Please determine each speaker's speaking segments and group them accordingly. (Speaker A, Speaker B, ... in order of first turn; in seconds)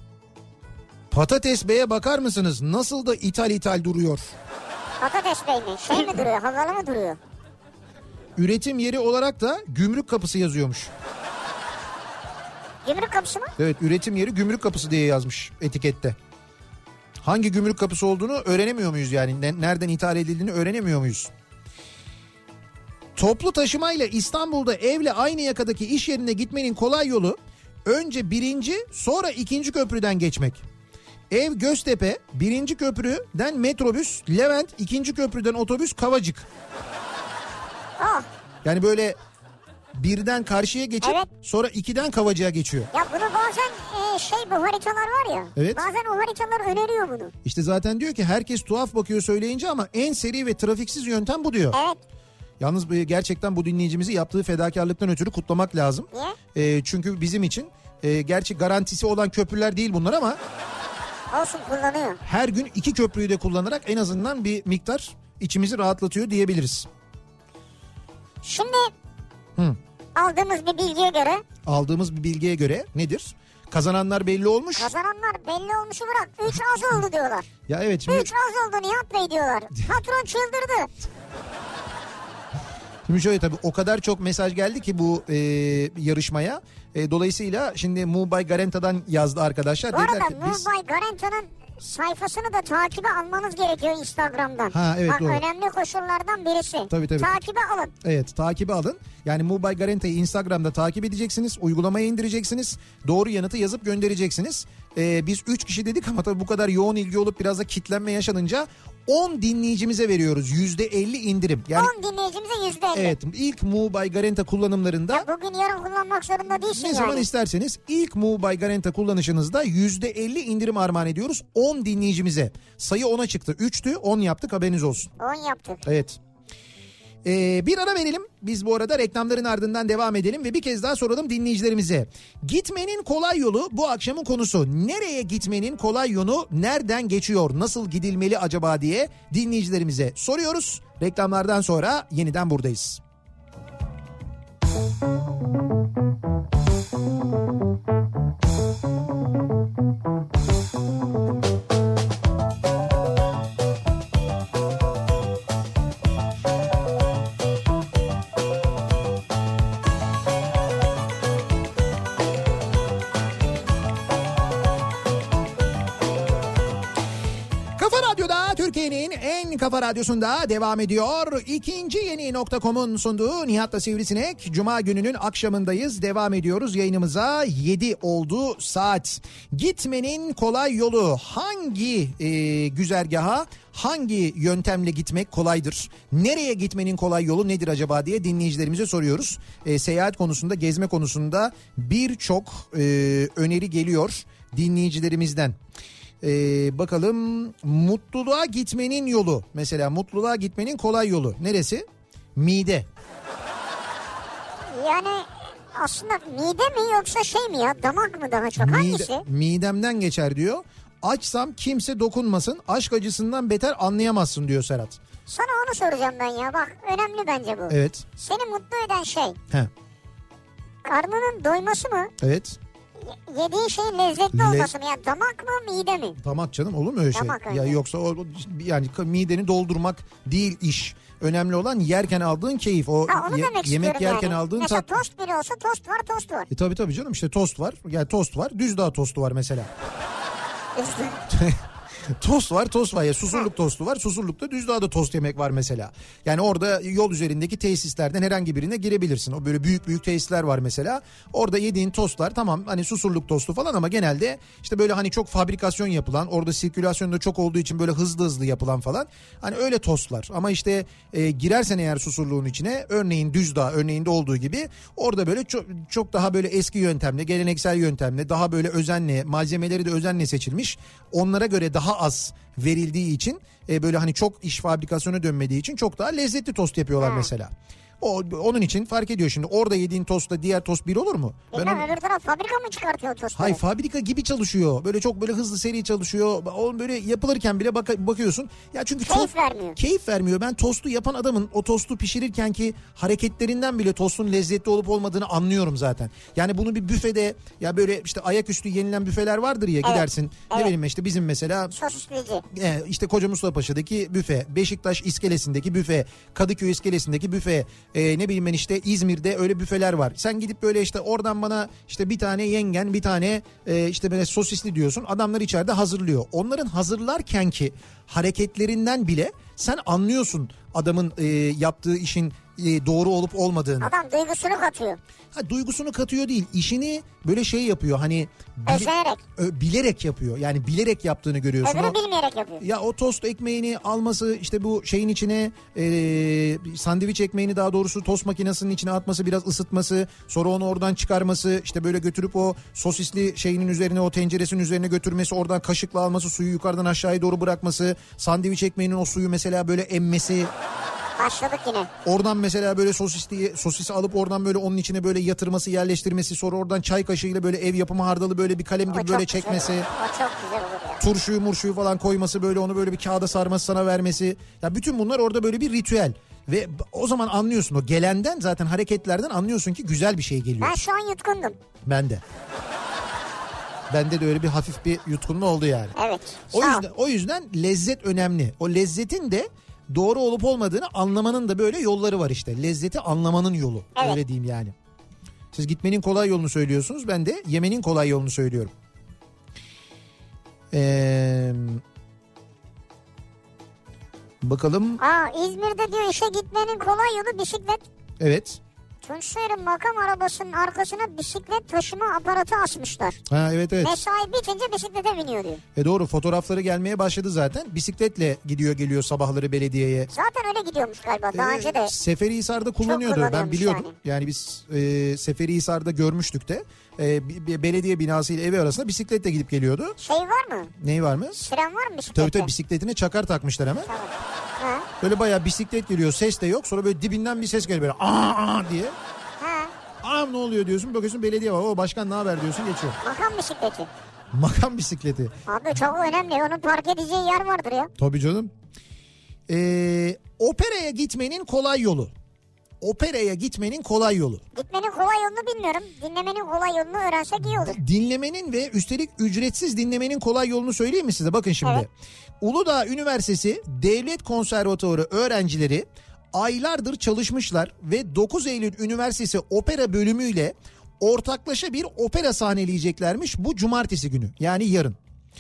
Speaker A: 1.1-4.3, 8.4-10.9, 13.6-16.2, 17.2-21.3, 23.2-30.6, 31.3-36.5, 38.6-39.2, 39.9-42.9, 45.6-45.8, 47.4-51.8, 52.6-60.4, 62.2-66.9, 71.7-74.9, 77.7-78.3, 83.1-90.7, 94.7-95.4, 96.9-97.4, 98.0-111.9, 112.9-115.3, 116.7-125.1, 125.8-126.2, 127.2-143.0, 167.8-195.6, 196.2-202.9, 208.6-215.0, 217.7-218.1, 222.2-222.6, 224.3-224.7, 226.2-235.0, 236.5-239.7, 241.3-241.6, 242.2-281.9, 283.4-301.8, 302.5-323.9, 325.3-332.0, 332.6-350.5, 352.1-359.9, 361.0-370.8, 371.9-372.2, 373.9-376.0, 376.5-384.7, 385.5-388.7, 390.7-391.8, 394.4-395.0, 398.2-398.6, 403.3-404.0, 405.8-410.1, 411.3-420.0, 420.8-421.4, 422.1-423.9, 425.0-428.9, 430.0-433.0, 434.3-435.3, 438.0-438.5, 439.5-442.1, 442.8-444.4, 447.5-451.9, 452.4-465.0
Speaker B: 5.0-7.2, 12.8-13.5, 38.0-38.3, 41.0-41.3, 42.9-47.3, 51.7-52.0, 61.3-62.2, 68.4-68.9, 70.2-71.4, 74.8-77.5, 78.1-80.9, 89.9-97.9, 111.8-113.2, 115.1-117.3, 125.2-125.8, 204.7-209.2, 215.3-219.4, 220.8-222.1, 223.0-226.2, 227.1-227.8, 233.1-236.5, 240.8-241.2, 277.0-277.3, 281.5-283.6, 289.1-289.8, 299.8-300.7, 301.7-302.4, 323.8-325.0, 328.7-329.2, 331.6-332.6, 351.2-351.9, 358.9-361.0, 370.6-371.6, 376.0-376.9, 395.0-397.8, 399.0-403.2, 403.8-405.6, 410.1-411.9, 412.8-413.9, 420.0-420.7, 421.3-422.5, 423.9-424.9, 429.4-429.7, 433.0-433.9, 435.5-437.9, 444.6-447.8